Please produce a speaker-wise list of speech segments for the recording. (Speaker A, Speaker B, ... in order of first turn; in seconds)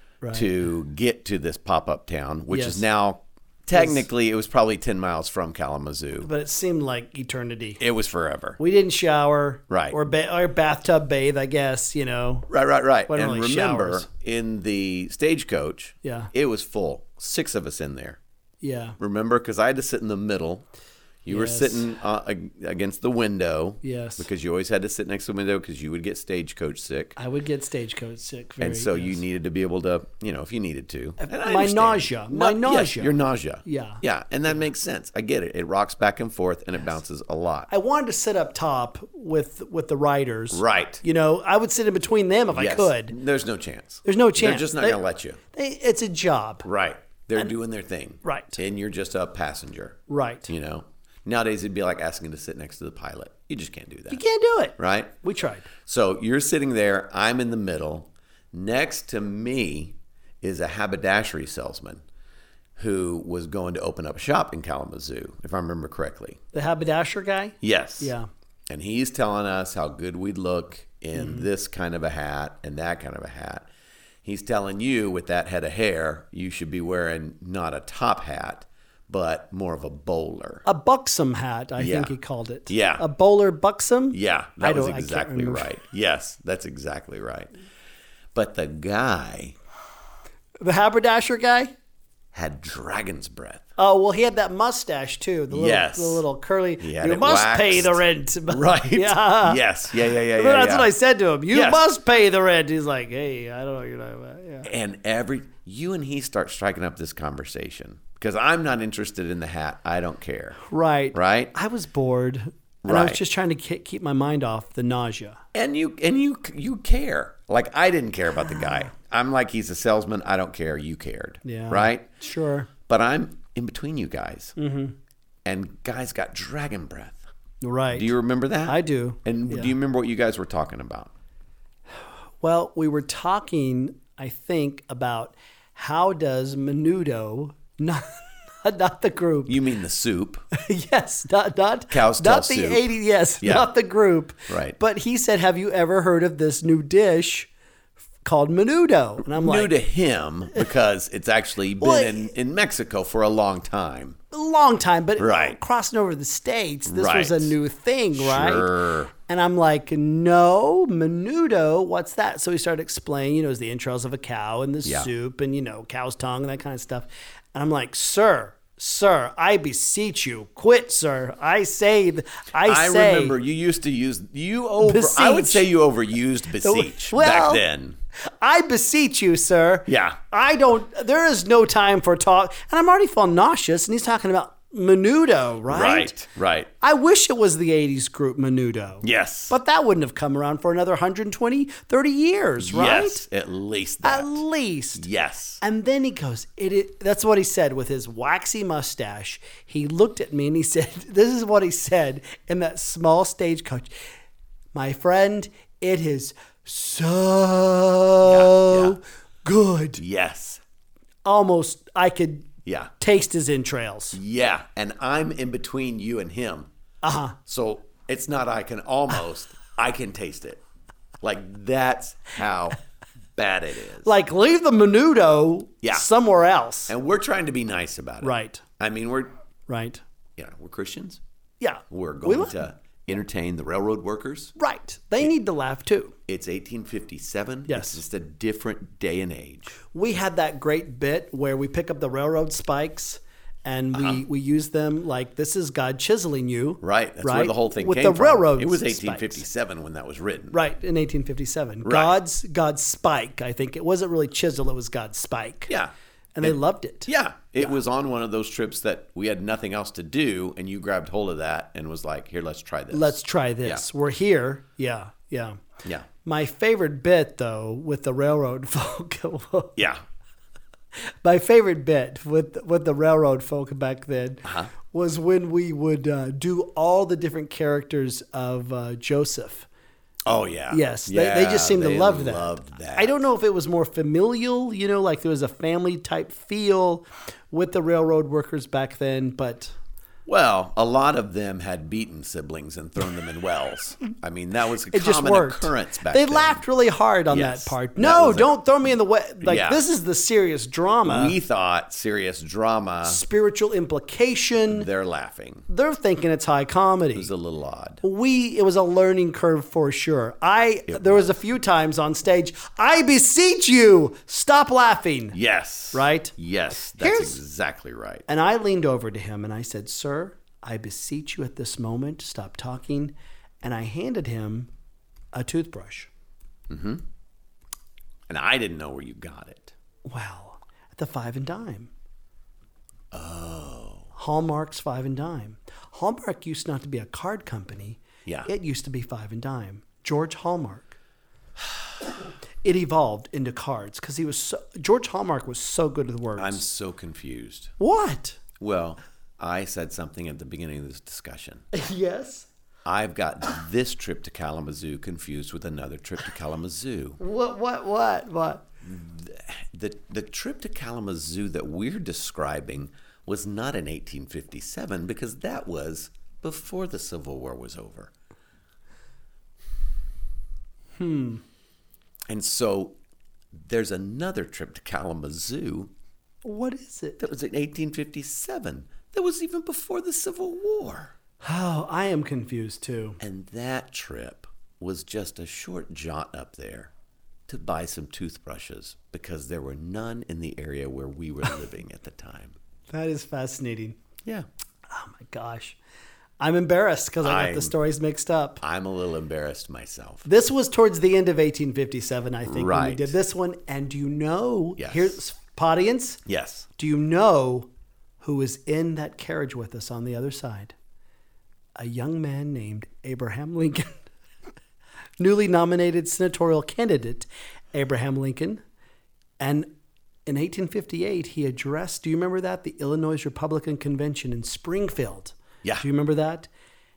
Speaker A: 0.2-0.5, 2.5-2.8, 3.8-4.0, 6.2-7.8, 8.6-12.5, 13.1-14.1, 16.0-16.3, 18.6-19.0, 21.3-21.8, 23.8-24.3, 27.2-29.2, 31.2-33.1, 33.6-34.0, 37.7-43.1, 44.0-45.0, 45.5-46.7, 48.2-48.6, 50.1-50.5, 54.1-55.7, 66.5-68.3, 71.2-71.5, 80.7-85.7, 90.6-91.7, 93.8-99.6, 100.4-104.7, 110.7-115.4, 121.5-122.7, 124.6-125.0, 127.6-128.1, 128.7-129.7, 132.4-139.6, 140.6-147.5, 148.2-149.7, 151.8-152.3, 154.3-173.4, 174.8-175.6, 176.6-177.6, 178.3-186.1, 186.8-193.2, 194.0-195.1, 195.6-203.9, 204.7-210.0, 211.2-214.2, 217.0-217.4, 224.0-226.9, 228.2-228.6, 229.7-230.0, 231.6-232.6, 234.6-236.2, 237.7-238.0, 239.9-249.4, 250.5-255.7, 256.4-257.1, 262.9-265.6, 266.2-269.8, 271.2-279.7, 280.7-289.8, 294.9-301.4, 303.1-304.9, 305.7-307.3, 308.0-315.4, 315.9-316.4, 317.0-317.4, 318.3-324.7, 325.3-326.1, 330.1-331.9, 334.2-341.0, 342.6-346.6, 347.8-348.4, 351.7-352.5, 357.2-358.7, 371.0-371.4, 376.4-377.2, 381.4-383.2, 392.9-394.0, 394.9-395.8, 396.4-398.6, 400.3-406.2, 406.8-407.7, 408.2-410.7, 411.8-414.0, 415.2-418.6, 419.4-419.7, 420.3-426.5
Speaker B: 0.3-6.3, 7.8-8.6, 9.7-10.0, 12.5-18.2, 19.0-20.7, 21.2-27.1, 28.6-37.7, 40.5-41.0, 42.5-45.4, 46.6-54.2, 54.8-55.1, 55.8-62.0, 62.8-66.4, 67.6-68.1, 68.7-73.7, 74.2-80.7, 81.8-82.2, 82.7-83.0, 84.1-87.5, 88.3-89.5, 92.3-93.7, 95.5-96.2, 96.8-100.9, 101.5-101.8, 104.6-110.6, 111.1-111.5, 112.8-113.2, 115.5-122.2, 122.9-124.5, 125.5-127.3, 127.9-131.1, 139.5-140.5, 141.9-143.7, 144.5-144.8, 149.2-154.2, 155.2-155.6, 156.9-157.6, 158.1-159.1, 164.8-165.1, 172.6-178.0, 179.9-180.2, 185.7-186.7, 189.0-189.6, 192.6-194.4, 194.9-195.6, 208.2-209.0, 210.0-210.6, 212.7-212.9, 214.1-216.7, 217.5-220.6, 221.2-222.8, 223.4-224.2, 225.8-226.1, 226.9-229.3, 230.4-231.2, 231.9-234.5, 236.3-239.8, 243.9-244.2, 246.8-250.6, 251.8-252.2, 255.7-263.9, 269.8-270.0, 274.4-274.7, 280.3-283.3, 290.3-296.6, 297.3-298.5, 299.4-299.8, 301.1-303.2, 304.7-305.7, 307.1-308.0, 310.9-311.3, 315.3-318.3, 326.7-327.0, 328.3-329.7, 333.1-334.1, 338.2-338.5, 346.4-347.7, 348.6-351.6, 352.9-357.2, 358.8-368.1, 372.3-373.0, 373.5-375.9, 377.2-381.1, 383.2-386.9, 387.5-392.6, 397.2-397.7, 398.6-400.3, 402.5-403.1, 404.8-405.2, 406.3-406.7